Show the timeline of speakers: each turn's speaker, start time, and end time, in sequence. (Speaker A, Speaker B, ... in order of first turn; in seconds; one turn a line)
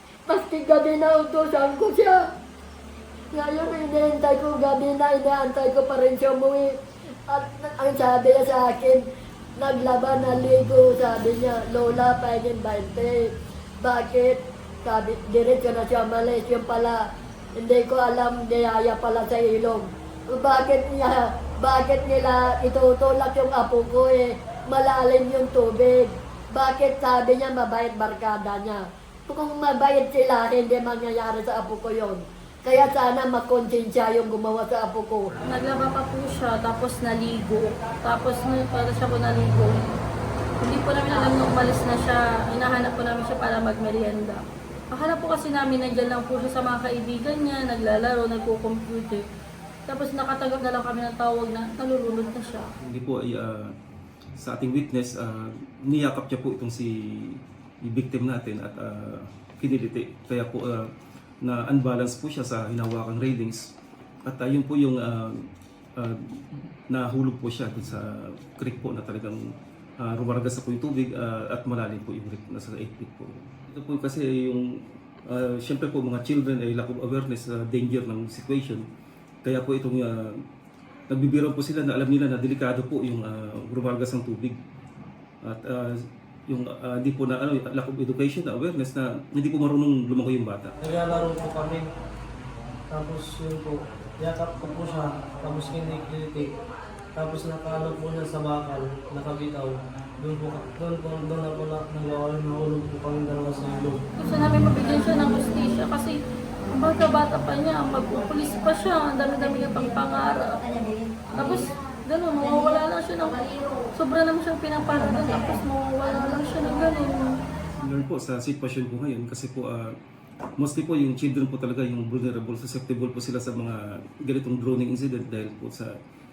Speaker A: 0.3-2.2
Speaker A: 3.3-6.8
Speaker A: 7.3-9.0
Speaker A: 9.6-17.0
Speaker A: 17.6-35.3
Speaker B: 35.5-39.9
Speaker B: 40.6-49.2
Speaker B: 49.9-52.7
Speaker C: 52.8-53.6
Speaker C: 54.4-60.9
Speaker C: 61.4-63.6
Speaker C: 64.2-65.4
Speaker C: 66.0-69.4
Speaker C: 70.0-74.7
Speaker C: 75.2-78.8
Speaker C: 79.4-80.4
Speaker C: 81.1-84.6
Speaker C: 85.4-90.7
Speaker D: 90.8-91.8
Speaker D: 92.9-96.5
Speaker D: 97.2-104.0
Speaker B: 104.2-106.2
Speaker B: 106.7-110.6
Speaker B: 111.2-117.3
Speaker C: 117.8-119.9
Speaker C: 120.6-125.9